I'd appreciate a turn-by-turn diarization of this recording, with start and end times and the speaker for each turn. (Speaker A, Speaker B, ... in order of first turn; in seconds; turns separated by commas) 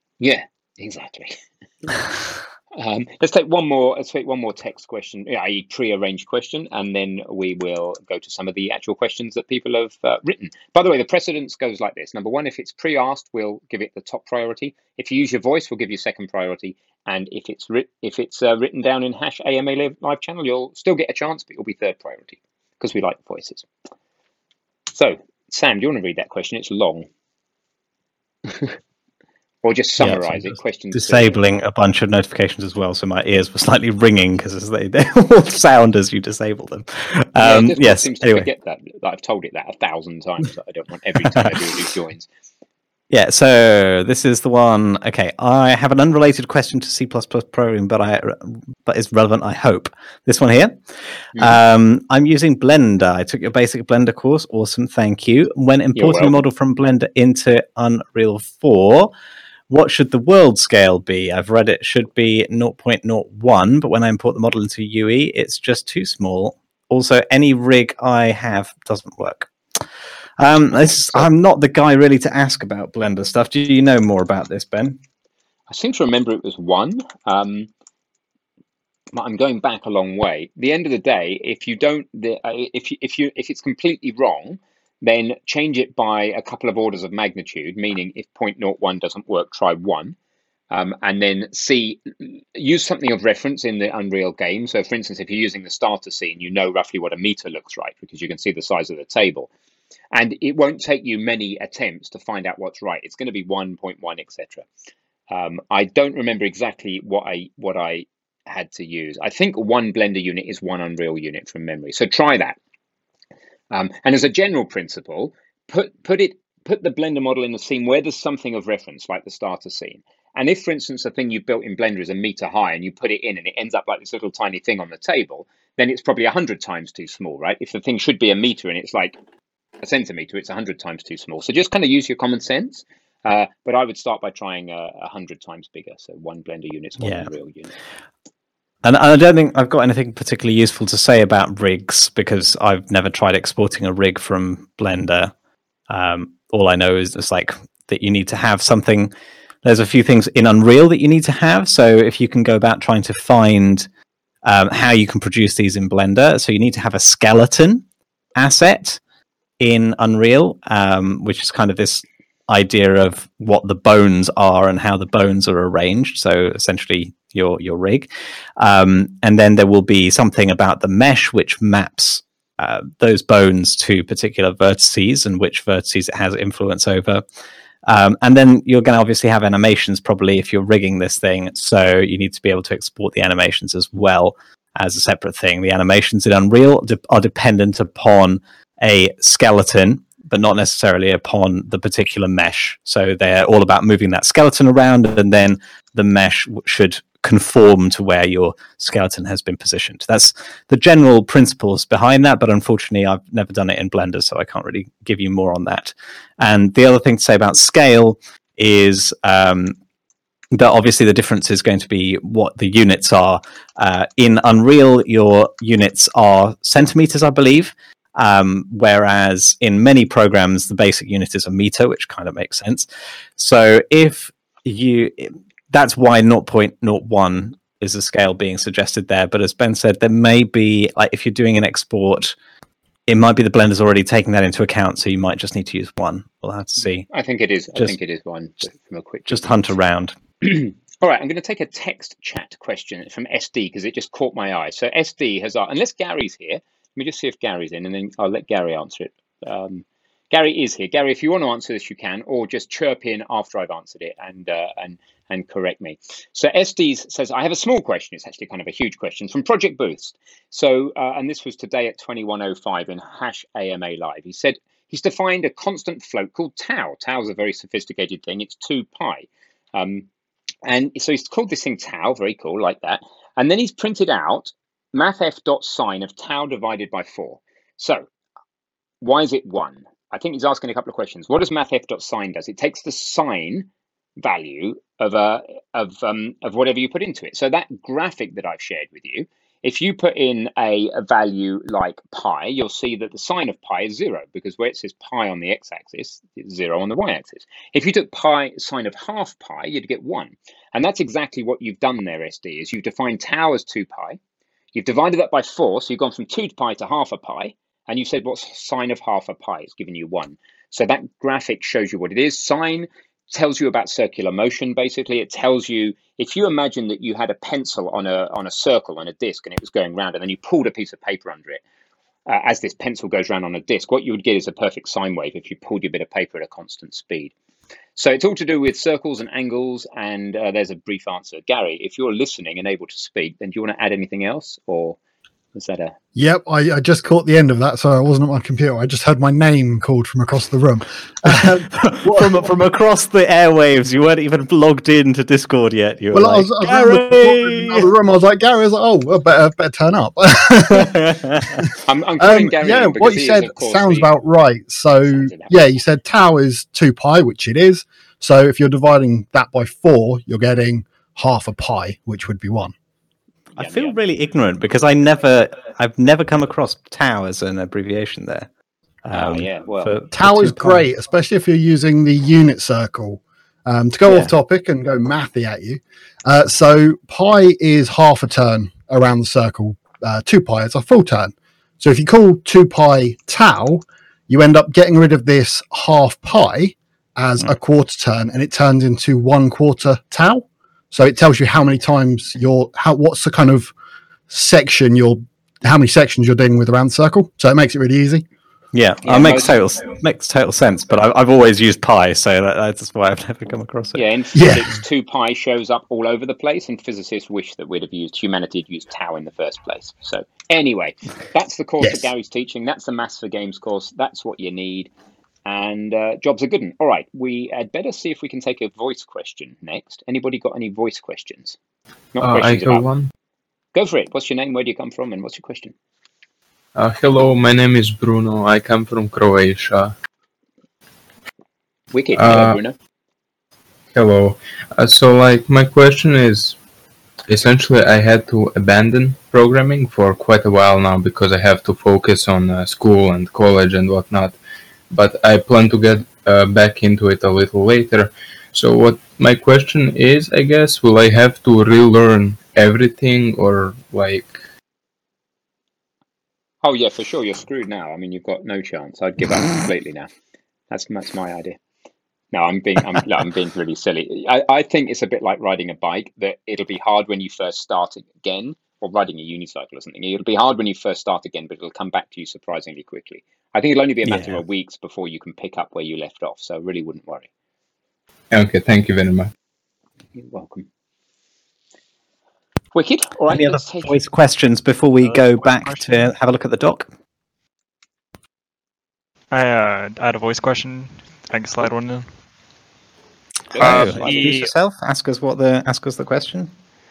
Speaker A: 0.2-2.0, Speaker A: 2.8-23.7, Speaker A: 24.9-27.1, Speaker A: 28.5-28.7, Speaker A: 29.6-31.4, Speaker B: 30.0-38.5, Speaker A: 37.4-42.3, Speaker B: 43.1-50.8, Speaker B: 51.4-59.1, Speaker A: 56.0-56.4, Speaker B: 59.7-69.5, Speaker B: 70.4-75.0, Speaker A: 70.9-71.3, Speaker A: 75.7-77.7, Speaker A: 79.1-90.2, Speaker A: 90.7-99.5, Speaker A: 100.1-104.7, Speaker A: 105.3-112.6, Speaker A: 113.7-129.2, Speaker A: 129.8-137.7, Speaker B: 137.0-137.3, Speaker B: 138.8-145.3, Speaker B: 145.9-149.1, Speaker B: 149.6-153.9, Speaker B: 154.4-157.8, Speaker B: 158.4-159.0, Speaker B: 159.6-177.2, Speaker B: 177.9-209.8, Speaker B: 210.5-232.3, Speaker B: 233.1-237.1, Speaker A: 237.1-239.7, Speaker B: 239.3-240.2, Speaker A: 240.4-270.1, Speaker A: 270.6-278.1, Speaker A: 279.0-304.2, Speaker A: 304.7-321.6, Speaker A: 322.3-327.3, Speaker A: 328.0-335.0, Speaker A: 335.6-335.9, Speaker C: 336.2-342.4, Speaker B: 341.2-347.9, Speaker C: 346.1-351.7, Speaker B: 350.7-351.6, Speaker A: 351.8-354.2, Speaker C: 352.2-362.7, Speaker A: 355.1-355.6, Speaker B: 363.6-368.5, Speaker A: 363.6-364.0, Speaker B: 369.1-370.9, Speaker A: 369.1-370.0, Speaker C: 370.1-393.7, Speaker B: 374.1-374.3, Speaker C: 394.3-398.2, Speaker B: 398.7-404.0, Speaker A: 399.0-399.6, Speaker A: 403.9-414.9, Speaker C: 404.3-404.7, Speaker A: 415.4-421.6, Speaker A: 422.1-422.9, Speaker D: 422.2-423.1, Speaker A: 423.8-425.7, Speaker D: 426.8-429.9, Speaker A: 431.9-432.8, Speaker D: 432.1-432.6, Speaker D: 433.9-436.6, Speaker D: 437.3-444.4, Speaker D: 444.9-454.4, Speaker A: 456.6-460.1, Speaker A: 460.7-461.6, Speaker A: 462.3-477.3, Speaker B: 474.0-474.4, Speaker D: 478.3-479.3, Speaker A: 480.2-480.7, Speaker A: 482.7-484.1, Speaker B: 483.3-486.9, Speaker E: 489.3-492.1, Speaker A: 493.5-494.4, Speaker B: 493.6-496.5, Speaker E: 493.6-494.5